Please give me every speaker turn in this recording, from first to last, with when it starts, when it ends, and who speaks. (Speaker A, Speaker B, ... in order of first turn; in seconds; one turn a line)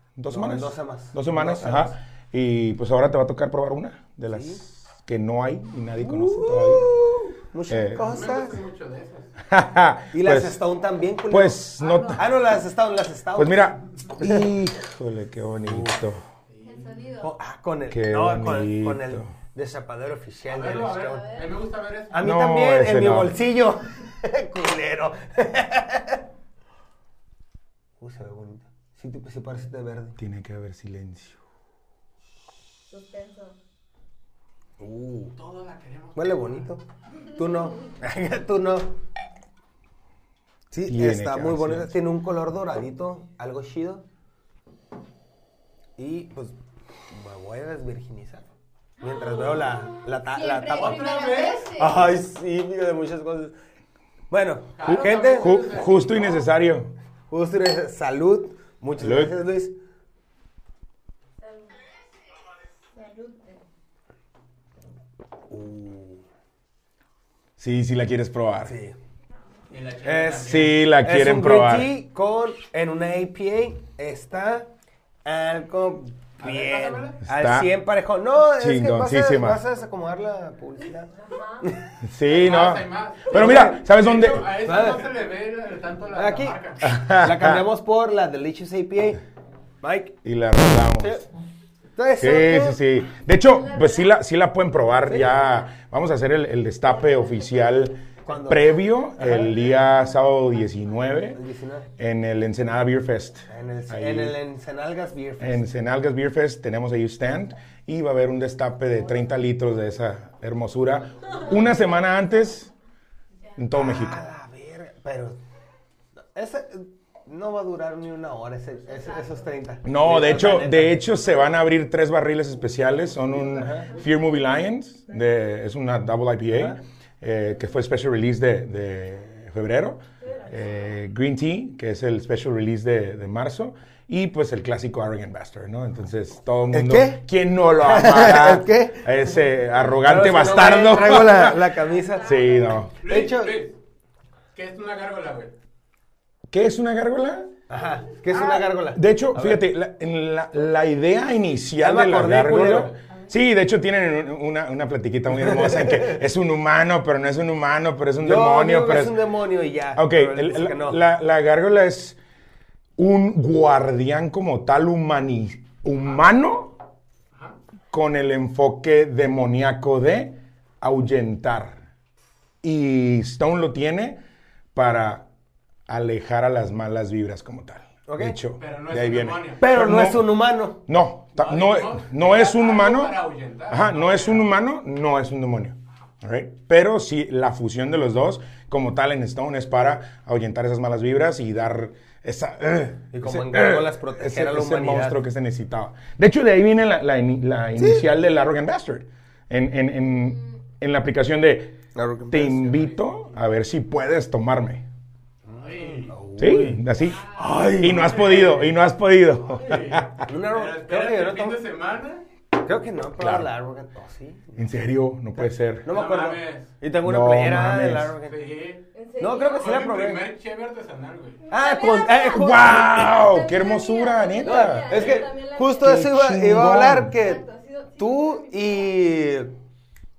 Speaker A: 0.2-6.9
Speaker B: 0.3-1.9
Speaker B: 4.3-4.6
Speaker B: 6.0-8.6
Speaker A: 7.7-8.1
Speaker C: 8.0-9.3
Speaker A: 9.5-10.6
Speaker B: 10.1-14.5
Speaker A: 11.3-12.2
Speaker D: 11.8-12.2
Speaker A: 13.4-16.2
Speaker B: 15.7-16.0
Speaker C: 16.5-17.0
Speaker D: 16.6-17.3
Speaker B: 17.2-21.4
Speaker A: 17.9-19.3
Speaker C: 20.5-22.2
Speaker B: 22.1-26.2
Speaker A: 22.2-23.4
Speaker B: 28.0-30.2
Speaker A: 30.2-31.4
Speaker D: 32.9-33.6
Speaker B: 34.8-35.4
Speaker C: 35.4-36.6
Speaker B: 36.1-36.8
Speaker B: 37.4-38.9
Speaker B: 40.7-44.0
Speaker A: 40.9-42.0
Speaker B: 46.0-46.6
Speaker B: 47.1-48.5
Speaker B: 49.0-51.2
Speaker D: 50.3-52.0
Speaker C: 50.7-51.9
Speaker B: 51.7-53.6
Speaker B: 54.3-55.6
Speaker C: 54.8-56.5
Speaker A: 54.8-56.9
Speaker B: 57.3-59.8
Speaker A: 59.0-59.3
Speaker D: 62.9-63.6
Speaker B: 65.5-66.2
Speaker A: 67.6-68.8
Speaker B: 68.6-69.0
Speaker C: 69.7-70.8
Speaker B: 70.0-74.7
Speaker A: 70.4-71.9
Speaker B: 75.2-81.9
Speaker C: 76.4-77.2
Speaker A: 77.2-77.7
Speaker A: 78.6-79.6
Speaker D: 81.2-81.7
Speaker A: 82.0-84.5
Speaker C: 82.3-86.9
Speaker B: 83.3-83.8
Speaker B: 84.6-85.1
Speaker B: 86.1-89.2
Speaker A: 86.8-87.7
Speaker B: 89.8-90.2
Speaker A: 90.2-91.2
Speaker B: 91.0-91.2
Speaker B: 92.0-92.8
Speaker A: 92.2-101.4
Speaker B: 95.1-95.3
Speaker B: 98.2-98.7
Speaker B: 99.2-99.5
Speaker B: 101.3-101.9
Speaker A: 102.0-104.4
Speaker B: 103.5-105.7
Speaker A: 105.4-112.7
Speaker A: 113.6-114.2
Speaker B: 113.7-115.4
Speaker B: 116.3-121.0
Speaker A: 119.8-141.6
Speaker B: 123.5-124.0
Speaker B: 126.5-126.8
Speaker B: 136.7-137.2
Speaker B: 137.8-139.1
Speaker B: 140.0-143.6
Speaker D: 141.9-142.8
Speaker A: 142.2-142.9
Speaker C: 143.0-143.8
Speaker C: 144.5-145.5
Speaker A: 146.5-147.5
Speaker B: 147.7-149.8
Speaker A: 148.3-159.2
Speaker B: 151.8-152.9
Speaker B: 155.5-156.2
Speaker B: 158.2-161.0
Speaker A: 159.9-162.2
Speaker A: 163.0-166.7
Speaker A: 167.9-171.8
Speaker A: 172.6-174.2
Speaker A: 174.8-175.3
Speaker A: 175.9-180.3
Speaker B: 178.1-178.4
Speaker C: 178.6-179.7
Speaker B: 179.6-180.8
Speaker A: 180.9-183.2
Speaker C: 181.4-184.5
Speaker A: 183.7-204.9
Speaker B: 193.1-195.2
Speaker B: 197.8-198.1
Speaker B: 201.9-202.7
Speaker C: 202.5-203.2
Speaker B: 205.5-208.3
Speaker C: 205.6-206.1
Speaker A: 206.4-207.2
Speaker A: 207.8-210.3
Speaker C: 207.8-208.7
Speaker C: 209.6-212.2
Speaker B: 210.3-211.6
Speaker B: 212.6-214.8
Speaker A: 213.2-213.5
Speaker A: 214.6-215.9
Speaker B: 215.3-218.4
Speaker C: 215.9-216.7
Speaker A: 217.0-218.2
Speaker C: 218.3-218.9
Speaker D: 218.9-219.8
Speaker B: 219.2-220.2
Speaker C: 219.6-221.4
Speaker D: 221.4-226.0
Speaker B: 221.5-223.2
Speaker A: 222.3-224.9
Speaker B: 224.4-227.4
Speaker C: 224.9-225.2
Speaker A: 225.8-227.1
Speaker D: 227.1-228.6
Speaker B: 228.0-229.6